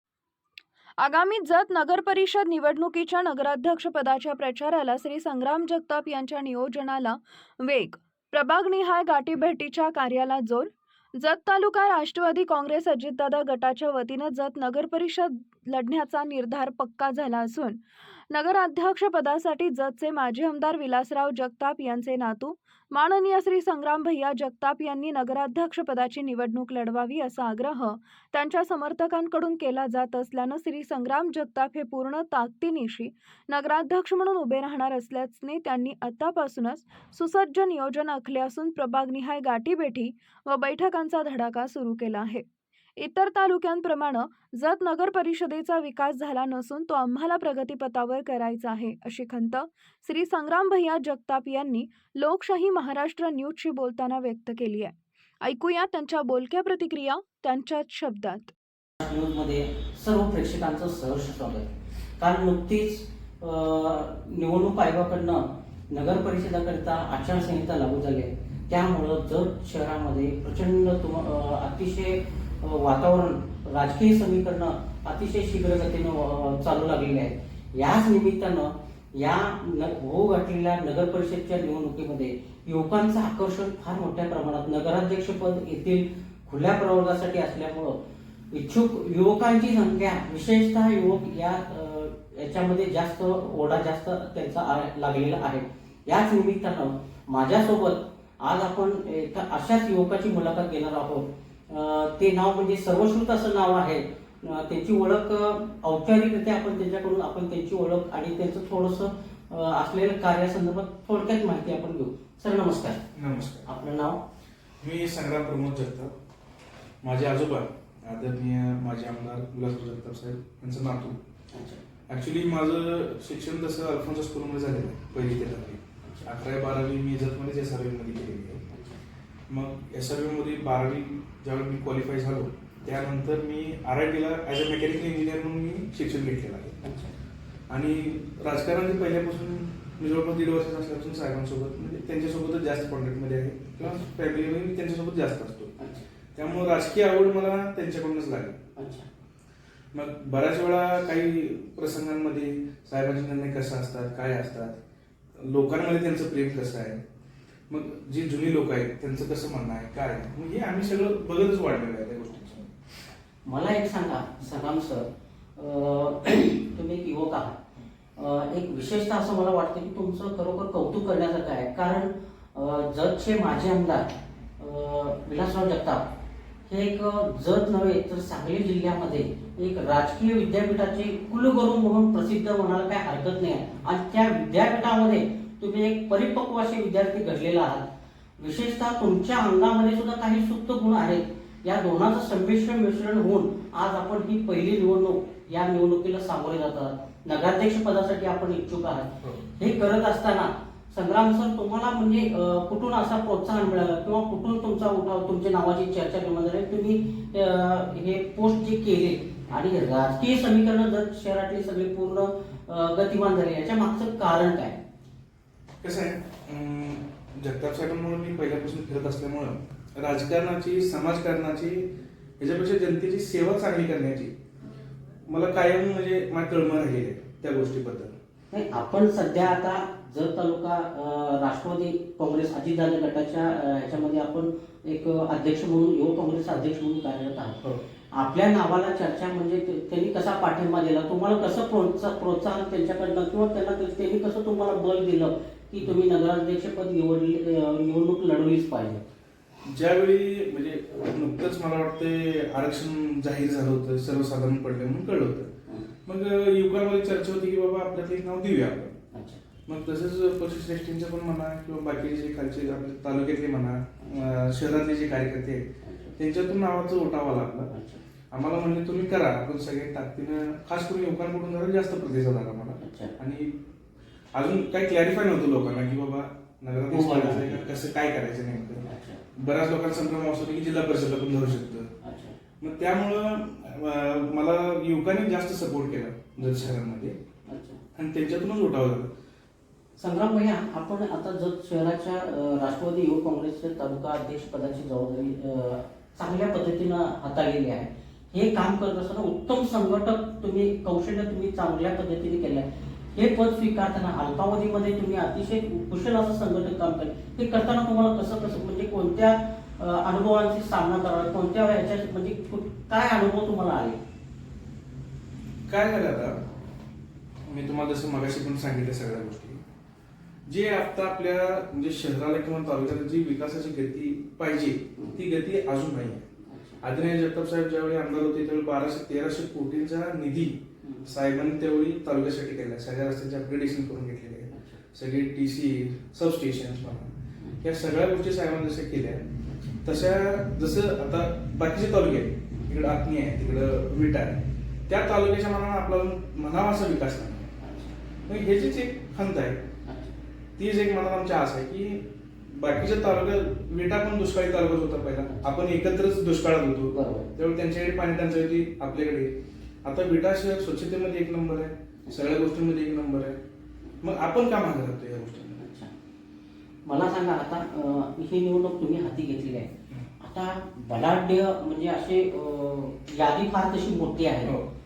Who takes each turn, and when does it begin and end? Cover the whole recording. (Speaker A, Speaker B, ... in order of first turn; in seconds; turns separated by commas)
Speaker A: 1.0-17.8, Speaker A: 18.3-42.4, Speaker A: 43.0-58.5, Speaker B: 59.0-88.0, Speaker B: 88.5-113.0, Speaker C: 113.1-113.7, Speaker B: 113.6-114.2, Speaker C: 114.8-116.1, Speaker C: 117.0-121.2, Speaker B: 121.5-121.8, Speaker C: 122.1-128.7, Speaker B: 126.0-126.3, Speaker B: 128.7-129.0, Speaker C: 129.5-136.8, Speaker B: 136.8-137.1, Speaker C: 137.7-145.7, Speaker B: 145.8-146.0, Speaker C: 146.3-148.6, Speaker B: 148.8-149.1, Speaker C: 149.9-154.8, Speaker C: 155.4-157.0, Speaker C: 157.7-162.7, Speaker B: 163.4-167.6, Speaker B: 168.2-176.1, Speaker B: 176.7-214.8, Speaker C: 215.8-221.9, Speaker C: 222.4-224.3, Speaker C: 225.3-228.1, Speaker B: 228.5-237.6, Speaker B: 238.1-249.0, Speaker C: 249.6-255.5, Speaker C: 256.1-258.9, Speaker B: 259.1-259.4, Speaker C: 259.7-267.7, Speaker B: 265.8-266.1, Speaker B: 267.7-268.0, Speaker C: 268.3-273.5, Speaker B: 272.8-273.1, Speaker C: 274.3-281.9, Speaker B: 276.9-277.6, Speaker B: 278.8-279.2, Speaker B: 282.0-282.4, Speaker C: 282.6-287.1, Speaker B: 286.4-286.7, Speaker B: 287.4-287.8, Speaker C: 287.9-289.1, Speaker B: 290.0-314.0, Speaker C: 315.7-316.4, Speaker C: 317.5-319.6, Speaker C: 320.5-326.3, Speaker B: 326.4-326.8, Speaker C: 326.8-339.2, Speaker B: 330.8-331.1, Speaker B: 334.5-334.8, Speaker B: 339.5-339.8, Speaker C: 339.8-347.5, Speaker B: 347.6-347.9, Speaker C: 348.3-349.6, Speaker B: 349.9-350.1, Speaker C: 350.6-359.3, Speaker B: 356.9-357.3, Speaker C: 359.8-363.4, Speaker C: 364.0-365.6, Speaker B: 365.6-365.9, Speaker B: 366.8-374.5, Speaker C: 374.4-374.7